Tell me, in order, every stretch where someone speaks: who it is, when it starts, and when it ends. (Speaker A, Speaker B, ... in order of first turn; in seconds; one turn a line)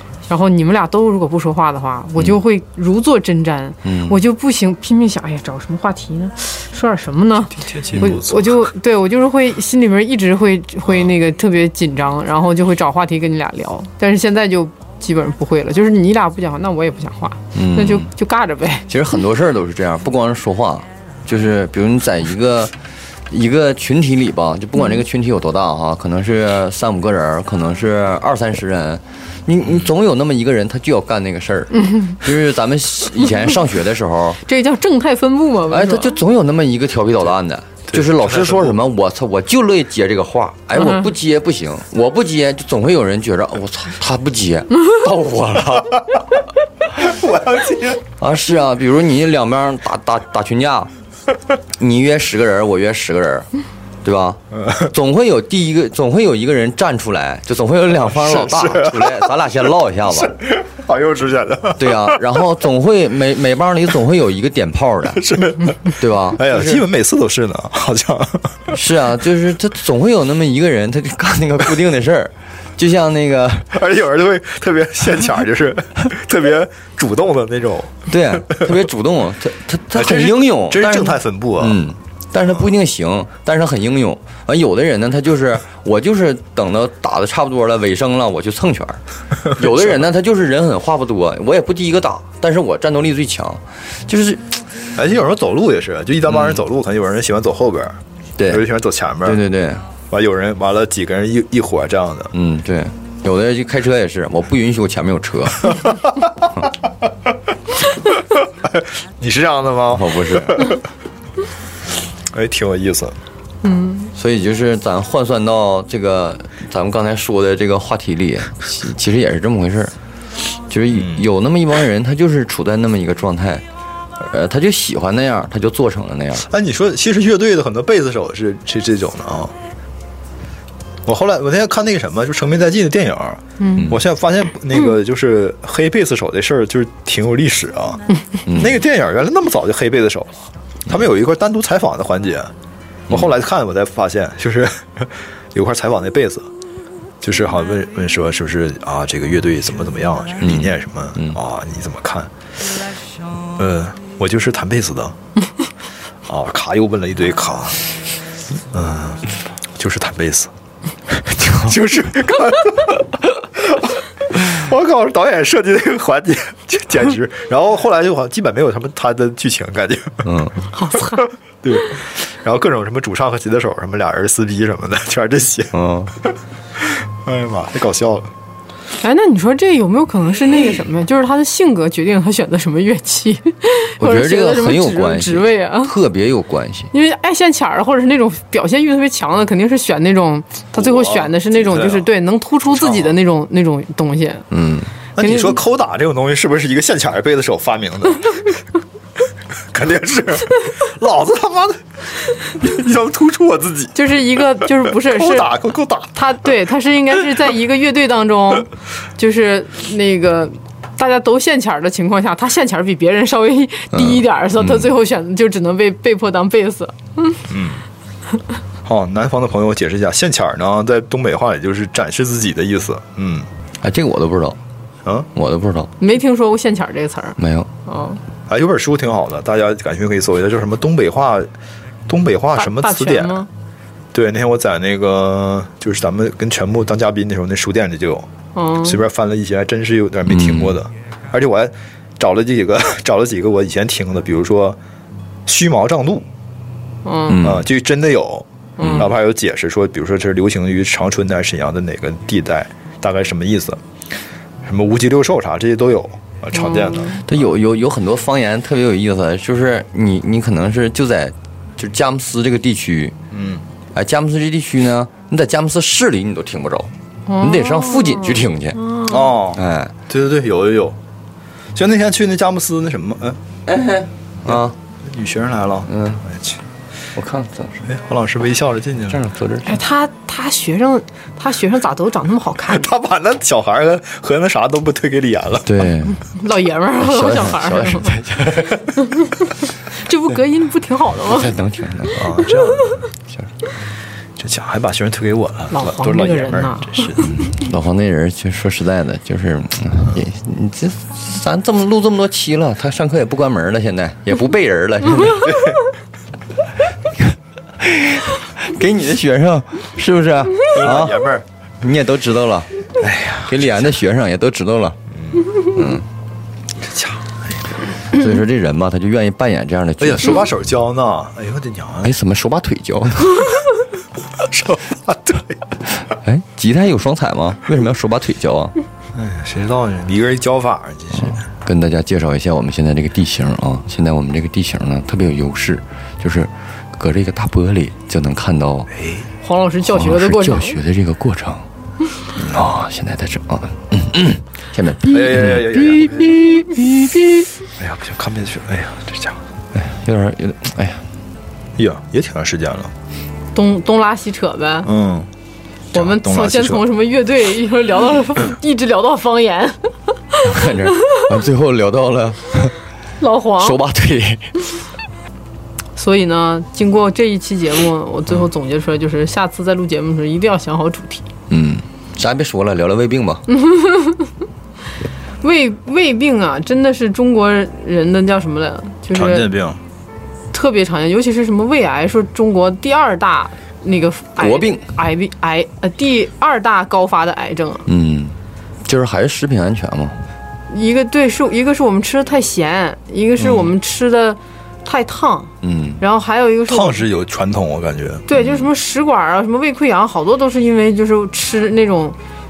Speaker A: 0.3-18.9
Speaker B: 3.8-4.2
Speaker C: 7.5-8.6
Speaker B: 7.9-8.2
Speaker B: 17.5-18.1
Speaker B: 18.9-22.7
Speaker B: 23.3-34.4
Speaker A: 31.8-32.1
Speaker A: 34.5-36.2
Speaker B: 35.7-46.0
Speaker C: 37.9-38.8
Speaker A: 40.8-41.1
Speaker C: 47.0-48.0
Speaker B: 48.2-50.9
Speaker B: 51.8-53.5
Speaker B: 54.0-60.3
Speaker C: 58.0-59.5
Speaker C: 60.1-62.3
Speaker B: 61.8-65.2
Speaker C: 65.1-68.7
Speaker B: 65.9-66.8
Speaker B: 68.7-73.7
Speaker C: 73.7-78.7
Speaker B: 78.1-94.6
Speaker C: 79.9-81.8
Speaker C: 95.0-99.4
Speaker B: 96.3-96.6
Speaker B: 98.4-98.6
Speaker B: 99.2-99.9
Speaker C: 100.1-102.3
Speaker B: 102.3-105.8
Speaker C: 108.4-110.8
Speaker B: 109.9-110.6
Speaker C: 112.3-113.1
Speaker A: 113.6-114.1
Speaker B: 114.1-119.9
Speaker B: 120.7-123.6
Speaker C: 120.9-121.2
Speaker B: 124.2-126.5
Speaker C: 126.5-129.5
Speaker C: 131.1-138.0
Speaker A: 133.6-133.9
Speaker B: 138.4-138.8
Speaker C: 138.5-142.5
Speaker C: 143.1-146.5
Speaker C: 147.2-152.3
Speaker B: 150.4-151.4
Speaker C: 153.6-155.2
Speaker C: 156.3-157.8
Speaker C: 158.7-159.2
Speaker C: 159.8-160.5
Speaker C: 161.1-163.0
Speaker B: 161.3-161.8
Speaker C: 163.6-170.3
Speaker B: 170.2-170.6
Speaker A: 170.7-171.2
Speaker C: 171.2-175.7
Speaker B: 175.7-176.1
Speaker C: 177.2-178.3
Speaker A: 179.0-185.9
Speaker B: 184.0-186.9
Speaker A: 186.9-194.4
Speaker C: 190.8-192.1
Speaker C: 192.7-193.1
Speaker B: 194.5-194.9
Speaker C: 195.2-198.6
Speaker A: 195.2-195.6
Speaker C: 199.7-204.0
Speaker A: 203.9-205.5
Speaker C: 204.6-206.1
Speaker A: 206.1-217.4
Speaker B: 213.9-214.9
Speaker C: 217.5-217.8
Speaker C: 218.8-223.5
Speaker B: 223.8-224.6
Speaker B: 225.3-225.9
Speaker A: 226.0-228.2
Speaker B: 227.4-227.7
Speaker C: 228.5-231.5
Speaker C: 232.1-233.4
Speaker A: 232.5-233.5
Speaker C: 234.1-238.3
Speaker A: 238.5-239.0
Speaker C: 238.8-244.8
Speaker B: 240.3-240.8
Speaker C: 245.4-246.3
Speaker A: 247.0-247.4
Speaker B: 247.3-247.7
Speaker C: 247.4-253.8
Speaker A: 248.8-249.1
Speaker B: 248.8-249.1
Speaker C: 254.6-257.5
Speaker A: 256.5-257.2
Speaker B: 257.2-263.1
Speaker C: 263.3-263.6
Speaker B: 263.9-268.8
Speaker A: 267.3-269.4
Speaker C: 269.1-271.0
Speaker B: 269.5-269.9
Speaker C: 271.7-273.4
Speaker B: 273.6-274.7
Speaker C: 274.4-276.6
Speaker B: 275.9-276.2
Speaker B: 277.1-277.9
Speaker C: 277.9-279.2
Speaker B: 279.1-279.8
Speaker A: 279.6-282.9
Speaker C: 282.7-285.7
Speaker B: 285.6-286.2
Speaker A: 286.2-288.1
Speaker B: 287.0-288.9
Speaker A: 289.0-289.3
Speaker A: 289.9-291.5
Speaker B: 291.2-292.4
Speaker C: 292.1-293.0
Speaker C: 294.4-297.3
Speaker A: 295.7-297.1
Speaker B: 297.3-305.6
Speaker B: 307.1-312.7
Speaker C: 310.7-311.4
Speaker C: 313.0-313.9
Speaker B: 313.4-315.0
Speaker C: 315.1-315.5
Speaker B: 315.7-316.1
Speaker C: 316.8-317.6
Speaker B: 318.1-320.5
Speaker C: 320.0-322.1
Speaker B: 322.0-323.5
Speaker C: 324.4-325.6
Speaker B: 326.1-328.7
Speaker C: 329.1-331.4
Speaker B: 331.1-338.9
Speaker C: 339.0-339.3
Speaker A: 339.4-340.8
Speaker B: 339.8-341.6
Speaker B: 342.4-347.5
Speaker C: 342.4-342.7
Speaker C: 345.1-346.5
Speaker C: 347.8-349.4
Speaker B: 349.7-351.0
Speaker C: 351.8-352.9
Speaker A: 353.5-354.9
Speaker C: 354.8-355.3
Speaker C: 355.9-356.8
Speaker A: 355.9-360.7
Speaker B: 360.4-362.7
Speaker A: 363.2-363.8
Speaker B: 363.6-364.5
Speaker A: 365.9-371.3
Speaker B: 371.5-373.4
Speaker A: 373.5-374.3
Speaker A: 375.4-379.5
Speaker C: 379.1-379.8
Speaker A: 380.5-387.9
Speaker B: 384.4-384.8
Speaker B: 387.9-390.2
Speaker A: 390.7-397.0
Speaker B: 393.4-393.7
Speaker B: 395.6-396.0
Speaker C: 396.7-398.2
Speaker A: 398.3-402.2
Speaker B: 398.3-398.7